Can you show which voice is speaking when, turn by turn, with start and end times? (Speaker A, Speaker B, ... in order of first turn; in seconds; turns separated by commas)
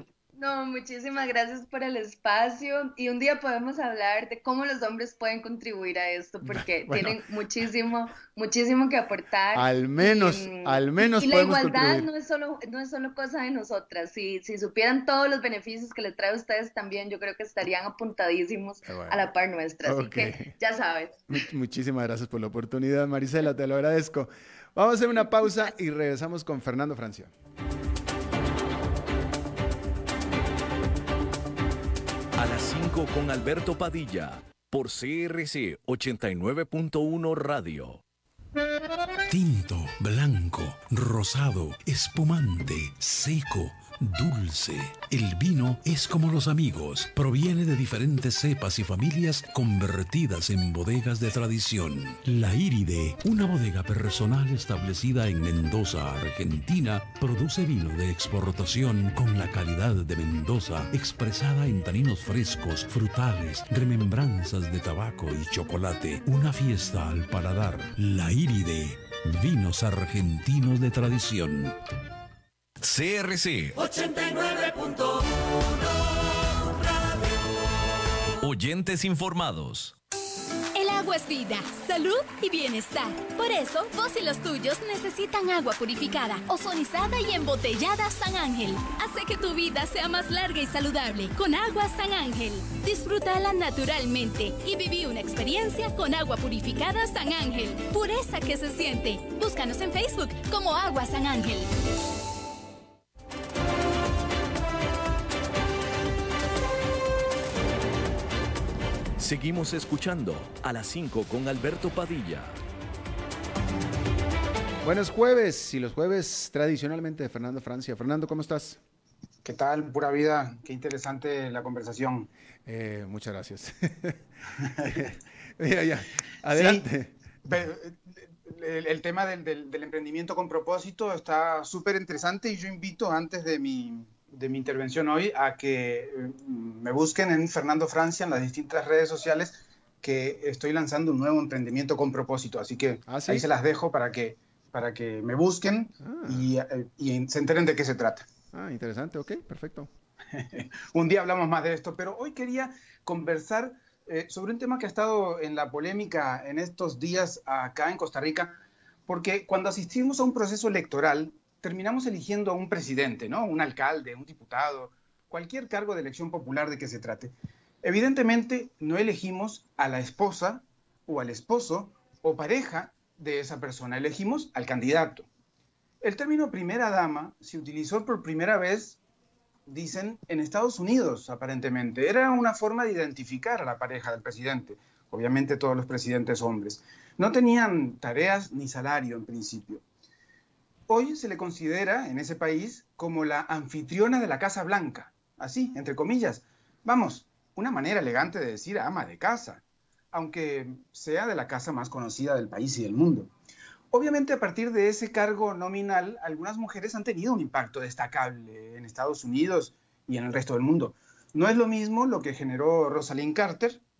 Speaker A: 0.3-21.4, Speaker B: 6.5-7.2, Speaker B: 9.5-12.1, Speaker B: 18.9-19.3, Speaker B: 19.8-20.5, Speaker B: 21.3-27.3, Speaker C: 32.4-38.0, Speaker D: 39.3-71.8, Speaker C: 72.8-74.2, Speaker C: 78.4-79.9, Speaker E: 80.7-101.7, Speaker C: 109.2-112.6, Speaker B: 114.8-118.8, Speaker F: 119.4-122.3, Speaker B: 122.7-124.2, Speaker B: 124.8-127.1, Speaker F: 126.5-126.9, Speaker F: 127.5-148.3, Speaker B: 143.1-143.4, Speaker B: 146.0-146.5, Speaker B: 148.5-149.9, Speaker F: 150.3-175.3, Speaker F: 176.0-179.0, Speaker F: 179.7-189.8, Speaker F: 190.9-203.3, Speaker F: 203.9-213.8